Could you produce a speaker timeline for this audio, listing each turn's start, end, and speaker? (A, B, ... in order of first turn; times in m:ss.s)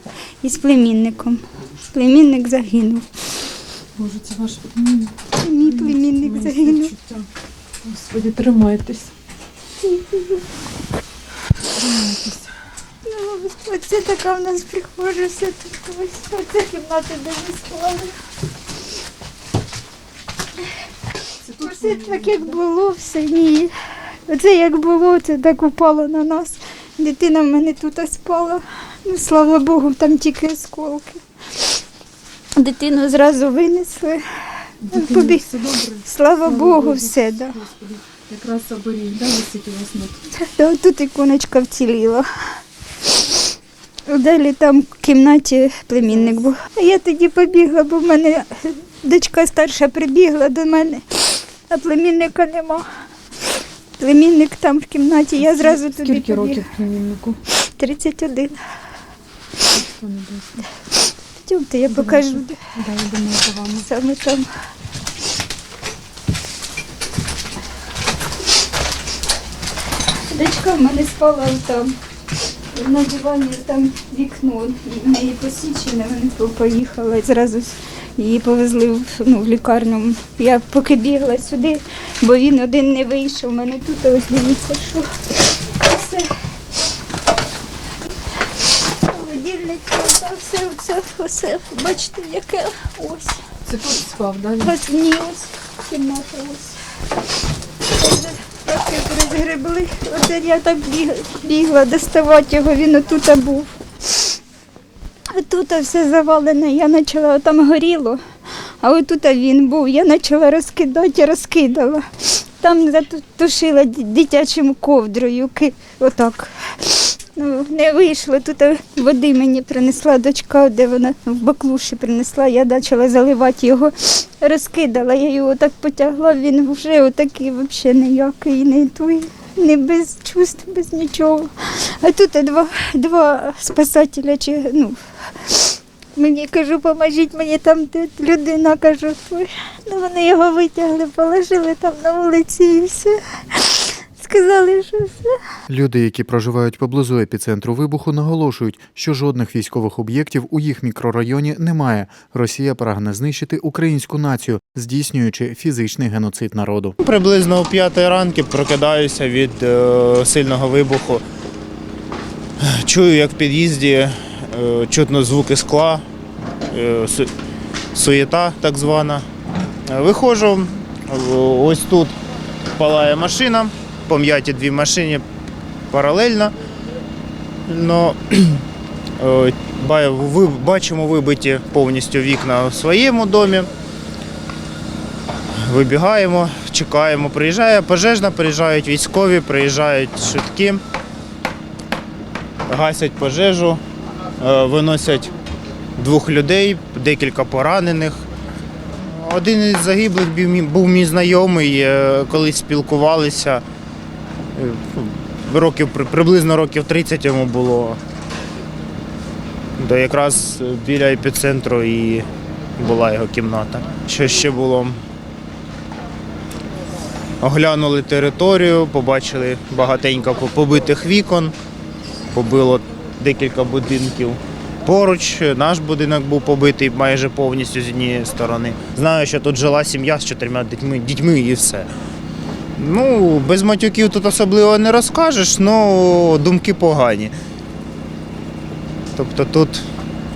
0:00.4-0:03.0 A
0:04.0-0:05.1 B
0:05.3-0:07.0 A
0:07.8-0:09.1 B
0:09.8-0:10.5 A
0:11.8-0:12.5 B
0:13.1-0:18.1 A
0:21.5-0:23.7 A
0:24.3-0:31.2 A
0:32.6-0:34.2 A
0:34.8-0:37.7 A
0:37.7-0:40.2 B
0:40.4-0:42.2 A
0:44.1-0:51.0 A
0:51.7-0:52.8 A
0:54.0-0:56.8 A
0:56.1-0:57.4 B
0:57.7-0:58.6 A
1:00.1-1:00.6 B
1:01.4-1:02.6 A
1:02.8-1:03.7 B
1:03.7-1:04.5 A
1:10.3-1:12.0 A
1:12.7-1:26.3 A
1:29.0-1:33.4 A
1:33.7-1:34.6 B
1:34.6-1:36.8 A
1:37.9-1:44.3 A
1:45.3-1:48.2 A
1:48.8-1:52.0 A
1:52.6-2:25.4 A
2:25.7-2:37.0 C
2:37.0-2:41.2 D
2:42.6-2:46.0 D
2:46.7-2:47.3 D
2:47.9-2:49.2 D
2:49.9-2:52.2 D
2:52.8-2:55.2 D
2:55.9-2:56.5 D
2:57.7-2:58.6 D
2:59.2-3:03.7 D
3:05.6-3:10.8 D
3:12.7-3:13.8 D
3:14.4-3:15.3 D
3:16.0-3:18.3 D
3:19.0-3:23.6 D
3:24.6-3:28.0 D
3:29.8-3:32.3 D
3:32.8-3:35.0 D
3:37.4-3:41.6 D
3:42.3-3:51.9 D
3:52.8-3:57.3 D
3:59.2-3:59.8 D